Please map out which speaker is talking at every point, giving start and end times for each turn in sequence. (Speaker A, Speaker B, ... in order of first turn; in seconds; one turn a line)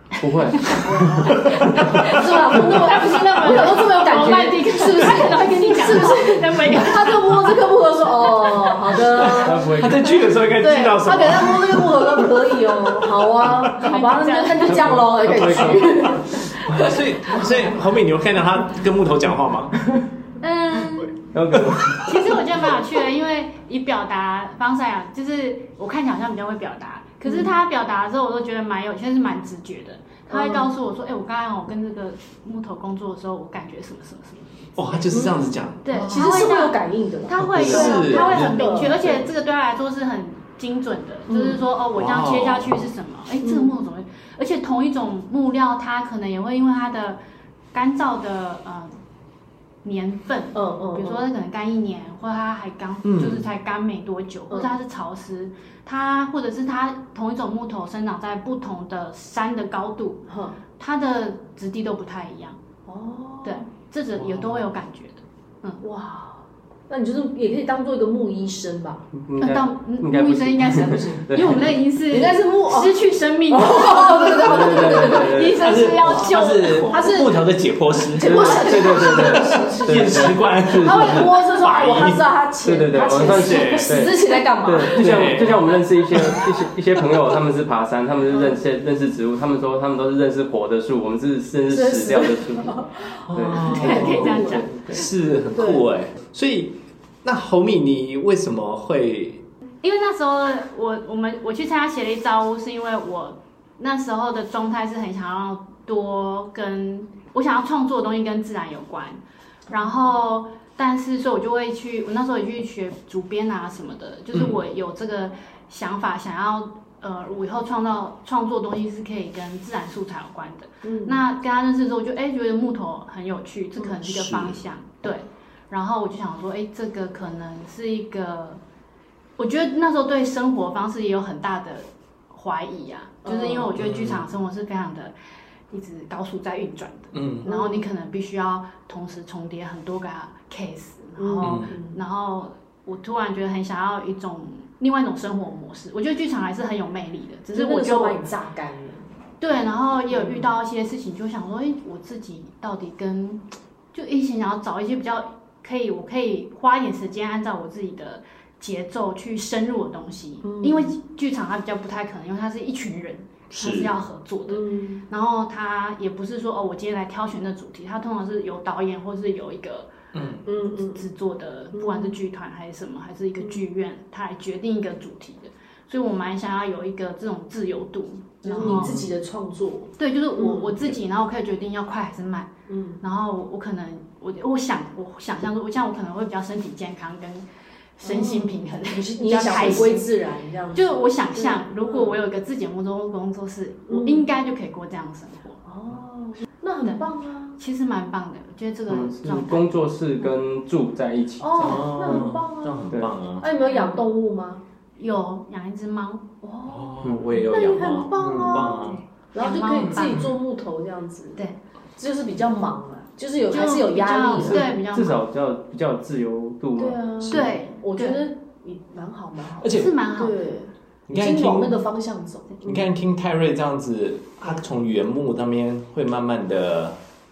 Speaker A: 0.2-2.1
Speaker B: 0.4-0.8
Speaker C: 0.7-9.9
Speaker D: 1.2-2.8
Speaker B: 2.0-7.5
Speaker D: 8.9-13.9
Speaker A: 8.9-10.4
Speaker C: 10.6-17.6
Speaker B: 13.8-15.0
Speaker A: 14.6-16.4
Speaker D: 15.3-19.8
Speaker B: 20.4-21.1
Speaker D: 21.0-22.4
Speaker A: 21.3-22.3
Speaker B: 22.1-47.2
Speaker C: 27.2-27.5
Speaker C: 30.3-30.7
Speaker D: 34.8-36.6
Speaker C: 35.1-35.5
Speaker C: 36.1-39.0
Speaker D: 37.4-39.3
Speaker C: 41.3-41.6
Speaker D: 42.0-42.8
Speaker C: 43.4-43.7
Speaker B: 47.7-49.0
Speaker B: 49.8-60.3
Speaker C: 50.5-51.2
Speaker D: 53.0-53.5
Speaker C: 60.3-60.6
Speaker B: 60.8-62.6
Speaker C: 62.9-63.6
Speaker B: 63.4-65.8
Speaker C: 65.8-69.1
Speaker A: 69.1-71.7
Speaker B: 69.4-77.4
Speaker C: 70.6-76.3
Speaker A: 74.2-75.8
Speaker D: 75.6-82.2
Speaker C: 76.9-86.4
Speaker A: 78.2-81.6
Speaker A: 82.6-95.1
Speaker D: 83.2-84.2
Speaker D: 84.8-86.4
Speaker C: 88.3-88.6
Speaker C: 91.7-94.7
Speaker D: 93.3-99.5
Speaker B: 93.6-94.7
Speaker C: 95.5-95.8
Speaker B: 99.8-128.6
Speaker C: 109.7-110.1
Speaker D: 114.3-114.6
Speaker C: 120.8-121.2
Speaker D: 124.0-124.6
Speaker B: 129.4-135.1
Speaker C: 133.2-133.8
Speaker D: 133.8-134.3
Speaker B: 135.7-148.2
Speaker D: 137.1-137.5
Speaker C: 137.4-137.9
Speaker C: 141.2-142.0
Speaker D: 141.4-141.7
Speaker C: 147.5-149.1
Speaker B: 149.4-169.9
Speaker C: 150.1-150.5
Speaker C: 160.4-160.9
Speaker D: 163.5-163.9
Speaker C: 164.5-165.0
Speaker D: 170.1-170.5
Speaker C: 170.5-171.0
Speaker B: 170.8-178.9
Speaker C: 171.7-172.2
Speaker C: 178.4-180.8
Speaker D: 178.6-179.1
Speaker B: 180.0-182.5
Speaker C: 182.7-183.0
Speaker B: 183.0-187.5
Speaker B: 188.0-190.1
Speaker C: 188.0-192.2
Speaker B: 190.7-195.6
Speaker C: 193.9-194.2
Speaker C: 195.7-197.6
Speaker B: 197.6-199.8
Speaker A: 198.9-202.3
Speaker C: 201.4-204.6
Speaker D: 201.6-203.5
Speaker B: 203.7-204.0
Speaker B: 205.0-206.3
Speaker C: 206.4-211.4
Speaker D: 206.7-209.0
Speaker A: 207.0-207.4
Speaker A: 208.2-208.8
Speaker B: 209.4-210.3
Speaker C: 212.0-214.7
Speaker B: 213.5-215.2
Speaker A: 214.4-217.4
Speaker C: 216.8-222.8
Speaker B: 217.2-218.3
Speaker D: 219.6-219.9
Speaker B: 219.7-220.5
Speaker D: 221.1-221.8
Speaker D: 222.6-227.0